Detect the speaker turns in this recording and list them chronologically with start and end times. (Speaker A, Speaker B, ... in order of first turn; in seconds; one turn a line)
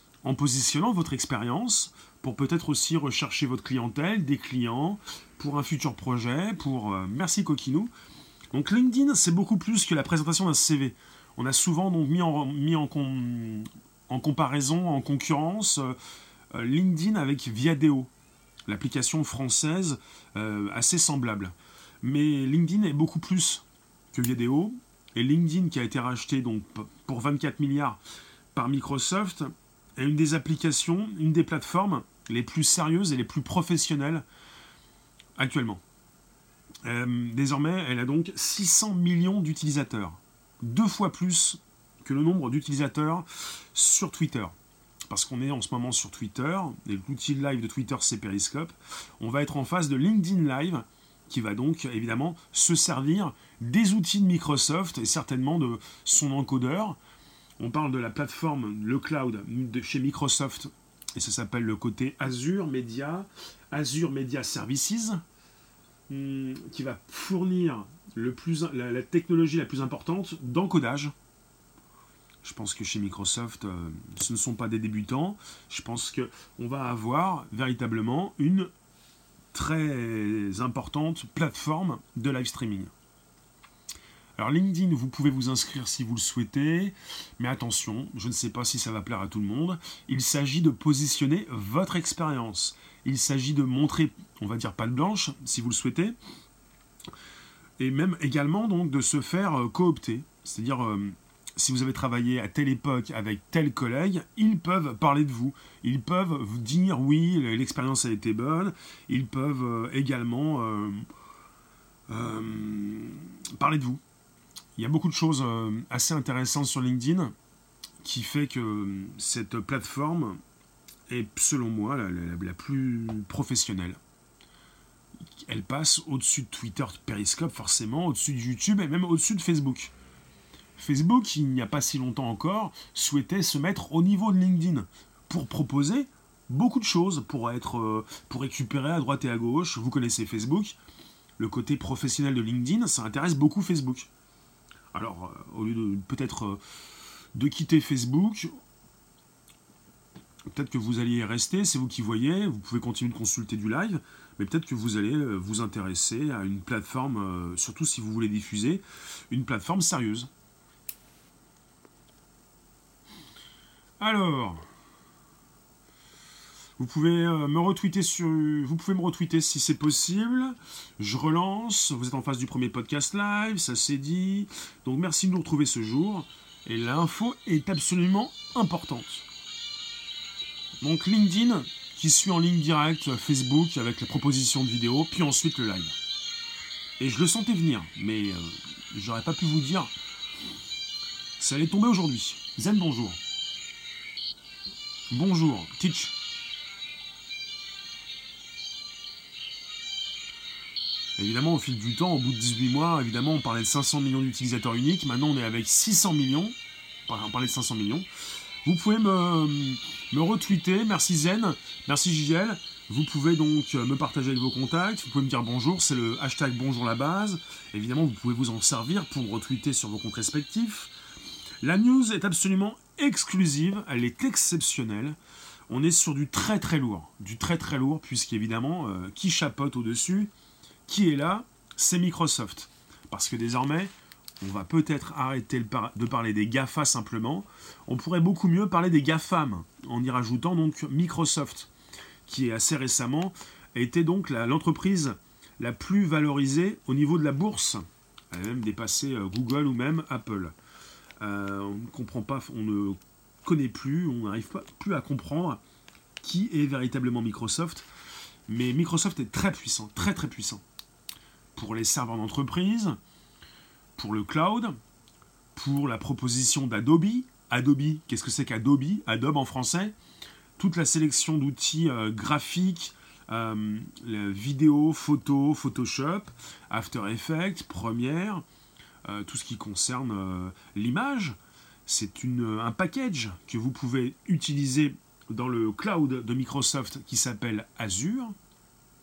Speaker A: 0.2-7.9
Speaker A: 8.5-15.9
Speaker A: 16.5-18.1
Speaker A: 18.7-28.0
Speaker A: 28.5-34.3
Speaker A: 35.4-35.8
Speaker A: 36.9-44.5
Speaker A: 45.1-57.0
Speaker A: 57.6-65.2
Speaker A: 66.1-71.1
Speaker A: 72.4-78.7
Speaker A: 79.5-82.9
Speaker A: 84.4-96.2
Speaker A: 97.8-111.0
Speaker A: 112.1-114.0
Speaker A: 114.8-117.3
Speaker A: 118.0-120.4
Speaker A: 121.1-124.0
Speaker A: 125.4-129.9
Speaker A: 130.8-140.8
Speaker A: 141.4-144.1
Speaker A: 144.9-146.6
Speaker A: 147.3-148.5
Speaker A: 150.5-160.3
Speaker A: 164.0-164.7
Speaker A: 166.8-179.2
Speaker A: 180.8-186.0
Speaker A: 187.0-189.9
Speaker A: 191.4-193.2
Speaker A: 195.1-196.1
Speaker A: 201.2-206.6
Speaker A: 207.1-208.1
Speaker A: 208.6-220.9
Speaker A: 221.6-225.2
Speaker A: 225.7-230.3
Speaker A: 230.9-241.7
Speaker A: 242.3-250.6
Speaker A: 251.2-255.6
Speaker A: 256.2-257.9
Speaker A: 258.5-260.6
Speaker A: 261.6-263.0
Speaker A: 264.0-264.8
Speaker A: 265.6-269.9
Speaker A: 270.6-278.4
Speaker A: 279.1-288.4